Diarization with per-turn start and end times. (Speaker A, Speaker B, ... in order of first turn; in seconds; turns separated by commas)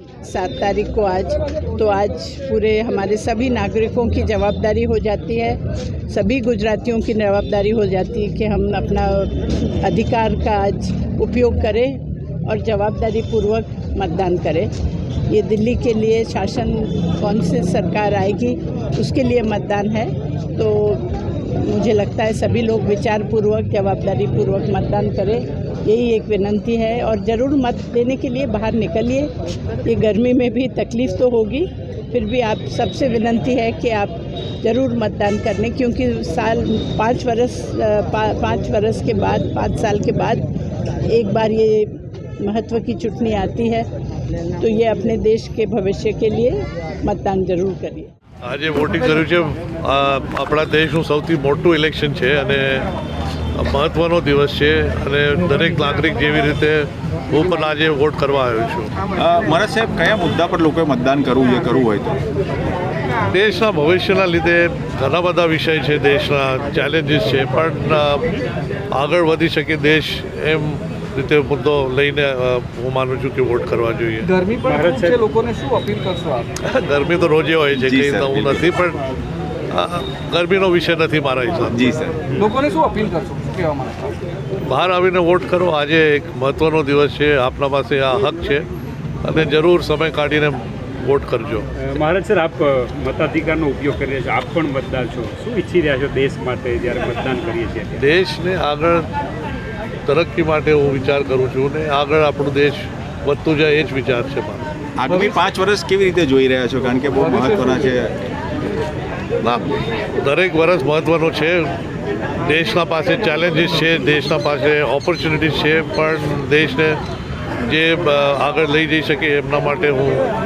Speaker A: 0.3-14.7, Speaker A: 15.3-29.3, Speaker A: 29.8-40.5, Speaker A: 41.1-43.9, Speaker A: 44.5-48.1, Speaker B: 48.4-52.9, Speaker B: 53.5-58.9, Speaker C: 59.2-62.2, Speaker B: 63.3-68.3, Speaker B: 68.9-74.3, Speaker D: 74.4-76.5, Speaker E: 74.6-75.3, Speaker B: 76.6-79.0, Speaker C: 77.8-78.7, Speaker B: 79.7-81.9, Speaker C: 81.7-82.2, Speaker D: 82.4-84.2, Speaker B: 84.6-88.7, Speaker B: 89.2-91.7, Speaker E: 91.8-98.0, Speaker B: 98.0-99.1, Speaker B: 100.1-104.7, Speaker C: 105.0-108.2, Speaker D: 107.5-107.9, Speaker B: 109.4-111.7, Speaker B: 112.4-117.0, Speaker B: 117.6-120.3